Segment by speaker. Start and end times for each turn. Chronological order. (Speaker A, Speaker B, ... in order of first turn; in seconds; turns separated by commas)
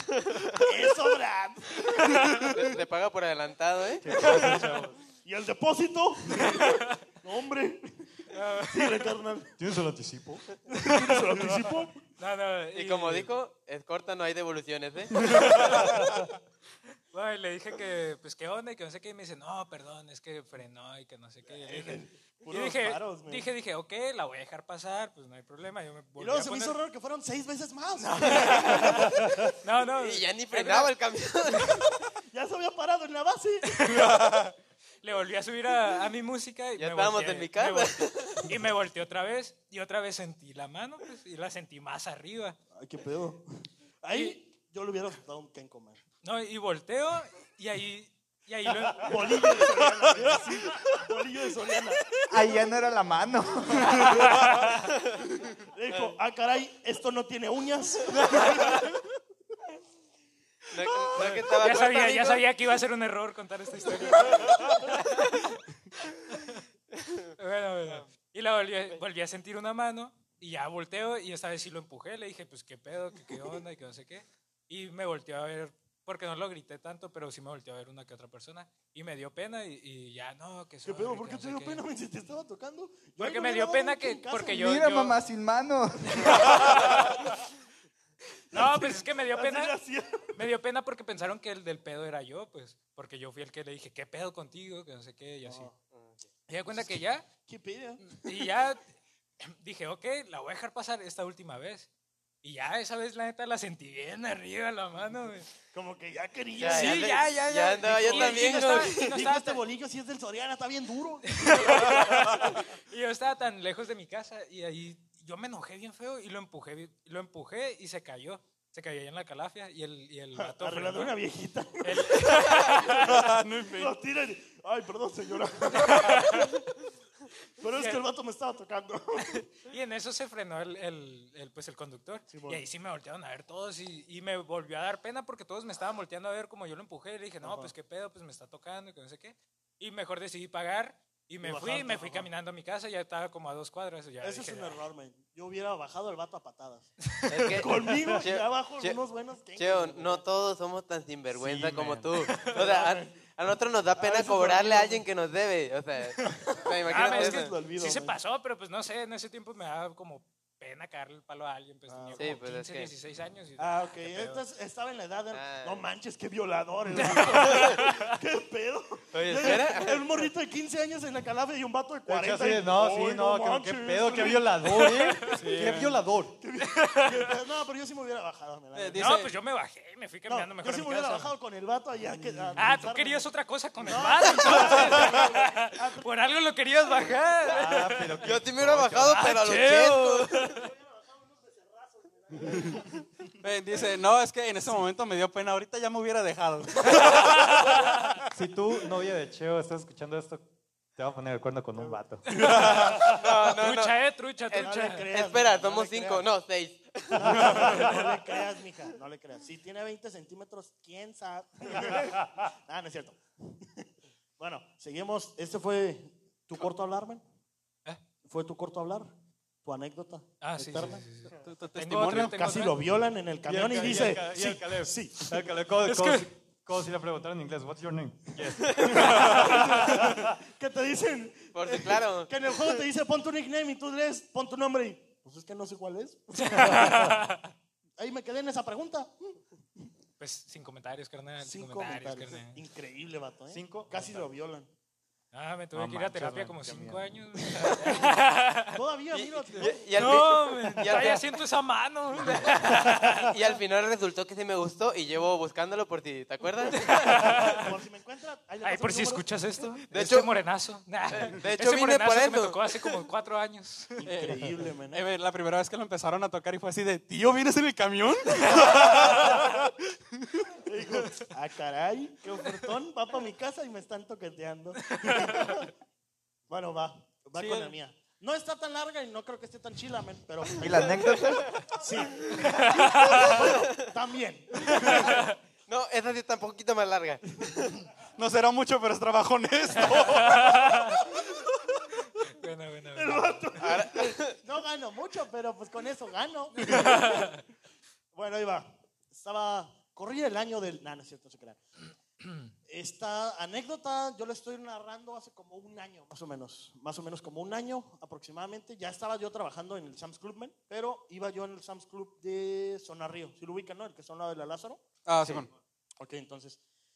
Speaker A: 0.6-2.5, Speaker B: 2.5-4.4, Speaker C: 4.0-5.0, Speaker A: 5.2-9.6, Speaker D: 8.3-9.1, Speaker C: 9.6-11.6, Speaker A: 10.7-12.0, Speaker D: 12.2-13.3, Speaker B: 12.7-16.0, Speaker D: 15.2-16.1, Speaker D: 17.1-26.8, Speaker A: 21.5-23.5, Speaker A: 26.2-29.5, Speaker D: 28.0-31.0, Speaker B: 30.0-31.9, Speaker D: 31.5-31.8, Speaker A: 32.3-34.2, Speaker D: 33.8-34.2, Speaker E: 34.0-34.5, Speaker D: 35.0-42.6, Speaker B: 36.8-38.5, Speaker A: 42.8-43.5, Speaker A: 44.0-46.0, Speaker D: 46.2-49.8, Speaker A: 49.0-52.2, Speaker F: 52.3-54.2, Speaker D: 53.9-54.8, Speaker A: 55.6-58.9, Speaker B: 60.7-62.5, Speaker D: 61.2-65.6, Speaker D: 66.3-66.6, Speaker D: 67.4-81.8, Speaker A: 80.8-84.7, Speaker D: 83.2-85.2, Speaker F: 84.5-86.8, Speaker D: 86.1-87.3, Speaker A: 86.5-87.1, Speaker D: 88.5-89.8, Speaker A: 88.5-90.4, Speaker D: 90.4-95.7, Speaker A: 95.4-95.8, Speaker B: 95.8-96.2, Speaker D: 96.5-97.3, Speaker A: 96.7-98.6, Speaker D: 98.1-98.8, Speaker D: 99.4-101.9, Speaker D: 102.4-105.5, Speaker A: 105.7-107.3, Speaker B: 106.6-109.2, Speaker D: 106.6-109.6, Speaker A: 107.8-112.6, Speaker D: 111.3-121.2, Speaker A: 120.4-126.5, Speaker D: 121.8-123.2, Speaker E: 123.0-123.9, Speaker D: 125.8-126.5, Speaker A: 127.6-129.4, Speaker D: 127.7-128.0, Speaker D: 129.3-144.8, Speaker A: 132.3-132.6, Speaker A: 137.4-137.7, Speaker A: 141.4-142.3, Speaker A: 144.2-146.9, Speaker D: 147.0-147.3, Speaker B: 147.3-149.0, Speaker A: 147.5-150.2, Speaker B: 149.6-157.6, Speaker C: 151.3-152.3, Speaker D: 152.3-152.6, Speaker A: 152.4-153.3, Speaker A: 154.0-155.1, Speaker D: 156.2-164.4, Speaker A: 156.5-158.2, Speaker A: 161.9-162.4, Speaker B: 162.2-162.9, Speaker A: 163.6-174.9, Speaker B: 165.3-165.8, Speaker D: 166.9-168.2, Speaker B: 167.4-167.8, Speaker B: 169.1-170.3, Speaker C: 172.1-176.4, Speaker D: 174.7-175.6, Speaker E: 175.3-175.9, Speaker A: 176.4-179.2, Speaker D: 176.6-177.4, Speaker E: 178.7-179.3, Speaker D: 179.0-181.3, Speaker A: 180.3-183.3, Speaker C: 182.2-182.6, Speaker D: 182.6-188.3, Speaker A: 183.8-186.1, Speaker C: 187.5-189.2, Speaker B: 188.2-190.6, Speaker D: 189.1-190.7, Speaker A: 190.6-193.0, Speaker E: 193.4-197.9, Speaker D: 196.9-198.1, Speaker C: 198.3-202.9, Speaker A: 201.8-202.8, Speaker D: 202.3-205.1, Speaker E: 202.4-203.0, Speaker B: 203.0-208.0, Speaker A: 204.6-206.3, Speaker A: 207.2-213.9, Speaker C: 207.4-207.8, Speaker A: 214.4-217.2, Speaker A: 218.2-219.1, Speaker A: 219.6-221.1, Speaker D: 220.4-222.8, Speaker E: 221.4-222.3, Speaker A: 222.1-225.4, Speaker C: 223.5-230.2, Speaker D: 225.8-226.3, Speaker B: 228.7-229.1, Speaker A: 228.9-237.2, Speaker B: 231.5-232.3, Speaker D: 236.4-237.5, Speaker A: 238.0-239.9, Speaker D: 240.2-242.6, Speaker A: 241.4-244.7, Speaker C: 243.5-244.3, Speaker D: 245.3-248.8, Speaker C: 245.7-247.1, Speaker A: 247.6-248.0, Speaker A: 248.7-250.2, Speaker B: 249.1-251.2, Speaker D: 249.6-253.4, Speaker B: 253.2-257.3, Speaker D: 256.8-257.8, Speaker A: 257.2-259.3, Speaker D: 258.6-264.1, Speaker B: 259.9-260.3, Speaker B: 261.1-263.0, Speaker A: 264.0-265.0, Speaker E: 264.0-270.6, Speaker A: 269.1-269.4, Speaker A: 270.6-275.7, Speaker D: 274.9-275.5, Speaker A: 276.5-285.2, Speaker E: 277.4-277.8, Speaker F: 280.6-281.5, Speaker B: 281.2-281.7, Speaker B: 282.2-282.4, Speaker D: 282.5-283.5, Speaker B: 283.4-283.9, Speaker B: 284.7-285.1, Speaker B: 285.7-287.9, Speaker E: 288.2-291.0, Speaker D: 289.9-291.0, Speaker D: 292.2-293.4, Speaker A: 292.9-297.3, Speaker B: 293.6-294.4, Speaker D: 296.6-297.4, Speaker A: 298.1-301.6, Speaker A: 302.7-315.5, Speaker E: 315.1-315.5, Speaker A: 316.0-316.6